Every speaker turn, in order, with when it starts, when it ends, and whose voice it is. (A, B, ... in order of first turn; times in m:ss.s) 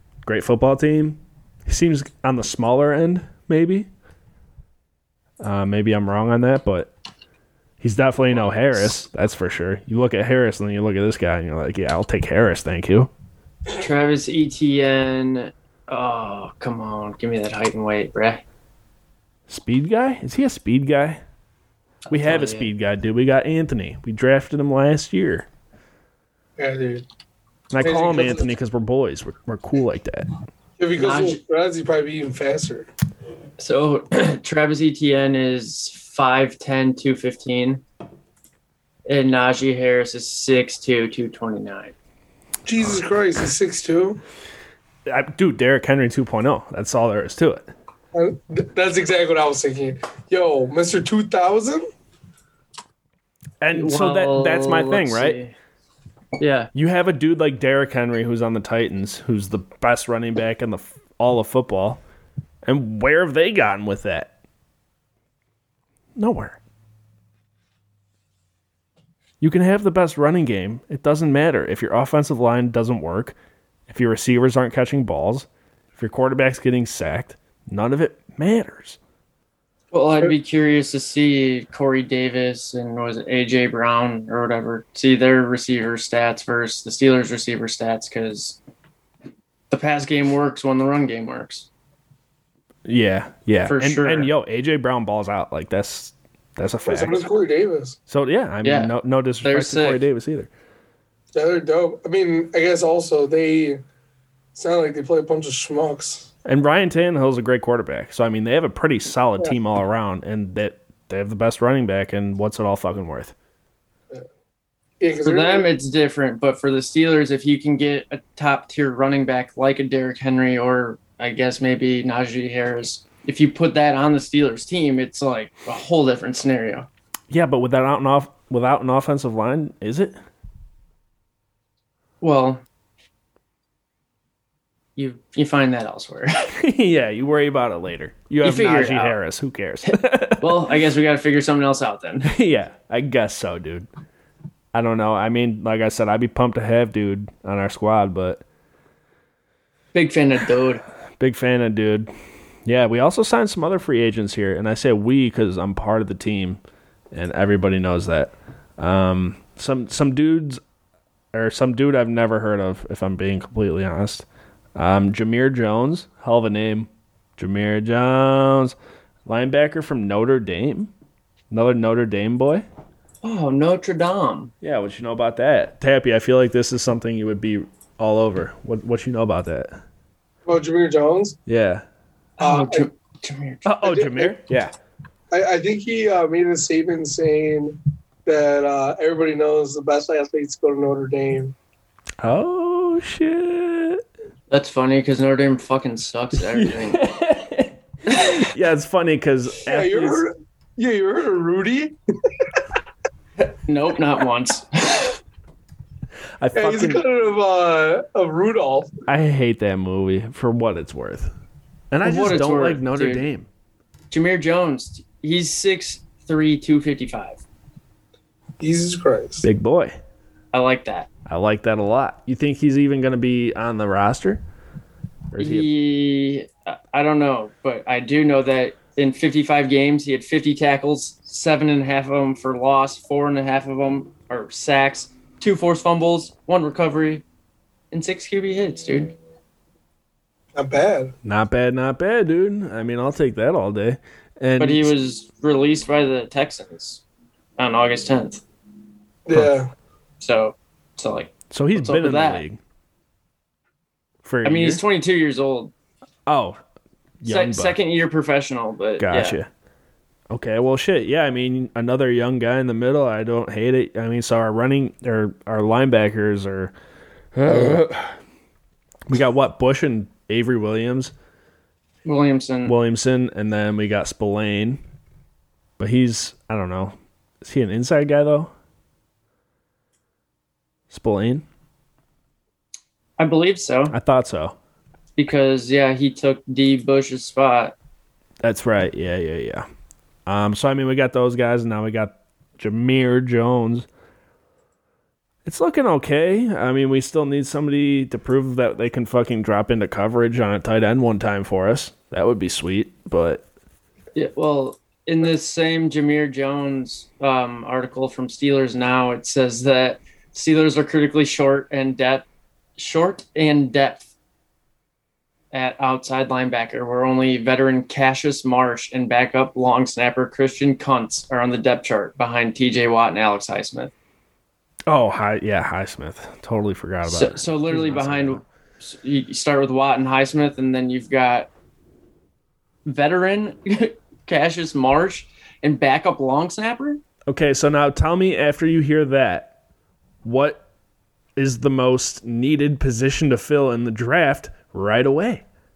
0:00.2-0:03.9 A
0:05.4-0:06.9 A
0:07.8-0:13.1 A
0:13.7-0:18.4 B
0:19.5-0:21.2 A
0:22.1-0:22.7 B
0:22.1-0:25.5 A
0:26.6-0:27.0 C
0:27.7-0:30.3 A
0:27.8-0:28.5 C
0:30.8-0:32.9 C
0:31.0-0:31.4 B
0:33.6-0:37.8 B
0:39.0-0:41.9 B
0:42.6-0:44.2 C
0:45.0-0:47.7 A
0:48.1-0:51.8 C
0:53.6-0:55.4 A
0:53.7-0:55.5 B
0:56.4-0:56.7 B
0:56.7-1:02.0 A
1:02.6-1:04.3 A
1:06.2-1:06.6 A
1:09.4-1:13.4 A
1:13.9-1:19.0 A
1:19.9-1:28.6 B
1:29.7-1:31.7 B
1:32.8-1:37.2 A
1:33.6-1:34.3 B
1:36.8-1:38.0 C
1:38.1-1:40.5 A
1:38.6-1:38.9 B
1:39.4-1:40.0 B
1:41.3-1:43.8 C
1:44.5-1:46.3 C
1:46.4-1:53.3 A
1:55.0-1:55.7 C
1:55.2-2:06.9 B
2:07.3-2:10.1 A
2:12.2-2:12.6 B
2:15.0-2:16.5 B
2:16.5-2:20.7 A
2:18.4-2:19.2 B
2:19.8-2:22.3 B
2:22.2-2:23.9 A
2:24.7-2:28.4 A
2:29.9-2:30.8 B
2:31.2-2:32.1 A
2:32.6-2:36.6 A
2:37.1-2:40.6 A
2:41.3-2:50.9 A
2:51.5-2:52.6 A
2:53.2-2:54.5 B
2:54.6-2:59.8 A
3:00.4-3:01.4 C
3:01.5-3:01.8 A
3:02.4-3:03.7 B
3:02.4-3:02.8 C
3:03.6-3:04.7 A
3:03.8-3:04.4 C
3:05.3-3:11.5 C
3:12.2-3:14.0 A
3:14.5-3:17.0 B
3:16.4-3:20.2 A
3:19.6-3:22.0 C
3:23.6-3:25.2 B
3:26.4-3:27.0 A
3:26.5-3:28.9 C
3:29.1-3:31.3 A
3:31.9-3:33.5 A
3:32.0-3:33.2 B
3:34.1-3:37.4 B
3:38.6-3:39.4 C
3:39.4-3:40.0 A
3:40.5-3:41.1 B
3:41.2-3:44.4 A
3:45.3-3:45.7 A
3:45.4-3:57.2 B
3:57.9-3:59.1 B
4:00.5-4:01.1 C
4:01.2-4:04.9 A
4:04.6-4:07.0 B
4:07.6-4:08.4 B
4:09.2-4:09.7 C
4:10.2-4:12.4 B
4:11.5-4:12.6 A
4:14.2-4:14.8 A
4:14.4-4:15.7 B
4:16.3-4:16.6 A
4:17.2-4:17.8 A
4:17.2-4:19.4 B
4:19.0-4:19.5 A
4:20.3-4:26.7 A
4:27.3-4:28.1 A
4:29.1-4:31.1 A
4:32.0-4:32.7 B
4:32.6-4:34.8 A
4:35.8-4:38.5 A
4:40.9-4:41.4 A
4:43.2-4:43.9 B
4:43.9-4:44.6 A
4:45.2-4:47.8 B
4:48.4-4:49.6 A
4:50.2-4:53.9 A
4:55.4-5:03.4 A
5:04.1-5:12.2 B
5:12.8-5:14.1 B
5:15.5-5:23.9 B
5:24.9-5:28.4 A
5:27.0-5:31.5 B
5:32.8-5:37.0 B
5:37.3-5:39.5 A
5:40.2-5:40.6 A
5:41.4-5:45.4 A